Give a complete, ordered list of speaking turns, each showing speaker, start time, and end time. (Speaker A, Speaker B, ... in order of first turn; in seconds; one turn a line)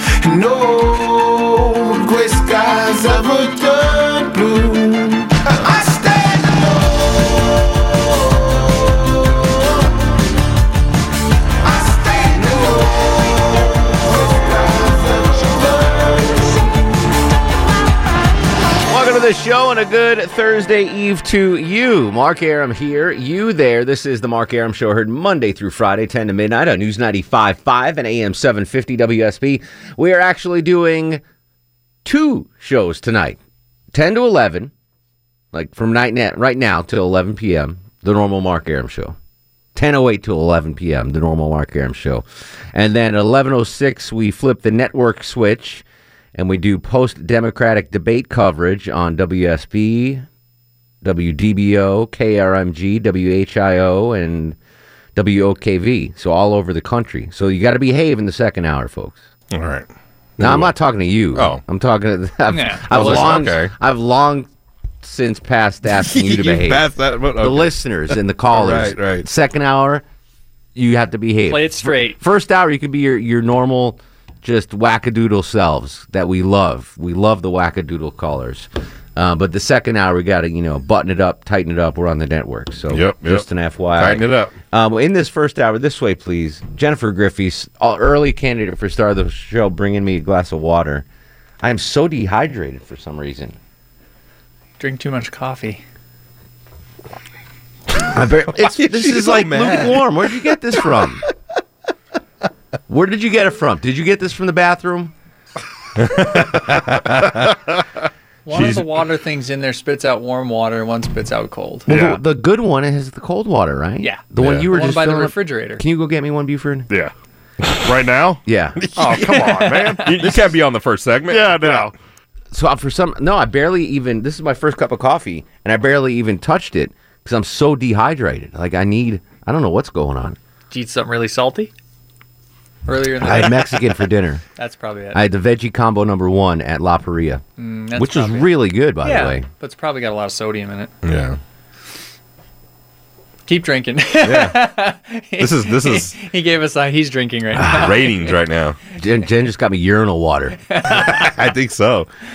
Speaker A: 0.2-7.3
Speaker A: 11.7-16.5
Speaker B: 18.9-31.2
Speaker B: 32.0-33.4
Speaker B: 33.9-34.7
Speaker B: 35.5-39.1
Speaker B: 39.7-45.8
Speaker B: 46.3-50.2
Speaker B: 51.0-54.6
Speaker B: 55.1-59.3
Speaker C: 59.5-59.9
Speaker C: 60.4-60.7
Speaker B: 60.4-64.5
Speaker C: 61.3-61.6
Speaker D: 62.5-63.5
Speaker C: 62.9-63.7
Speaker B: 65.0-66.8
Speaker C: 66.0-67.8
Speaker B: 67.4-70.0
Speaker C: 68.5-69.2
Speaker B: 70.7-91.0
Speaker D: 71.5-72.2
Speaker C: 82.9-84.5
Speaker B: 91.6-93.5
Speaker D: 94.8-95.8
Speaker B: 97.9-101.2
Speaker C: 98.7-100.0
Speaker B: 102.9-105.1
Speaker C: 106.0-107.5
Speaker D: 108.5-111.9
Speaker C: 108.5-108.8
Speaker B: 111.9-116.9
Speaker C: 111.9-112.1
Speaker D: 114.0-115.8
Speaker C: 114.4-114.7
Speaker E: 117.7-118.4
Speaker B: 118.5-118.8
Speaker C: 118.8-121.8
Speaker E: 119.0-120.3
Speaker D: 119.2-120.4
Speaker E: 121.3-121.9
Speaker B: 122.5-130.4
Speaker D: 130.7-131.7
Speaker D: 132.9-133.8
Speaker B: 133.2-134.4
Speaker D: 134.6-135.2
Speaker B: 135.1-137.4
Speaker D: 137.6-140.9
Speaker B: 137.9-139.5
Speaker C: 141.0-141.4
Speaker D: 143.5-148.4
Speaker C: 144.2-144.6
Speaker C: 145.4-146.1
Speaker C: 147.6-148.8
Speaker B: 148.9-150.6
Speaker D: 150.7-151.3
Speaker C: 151.0-152.1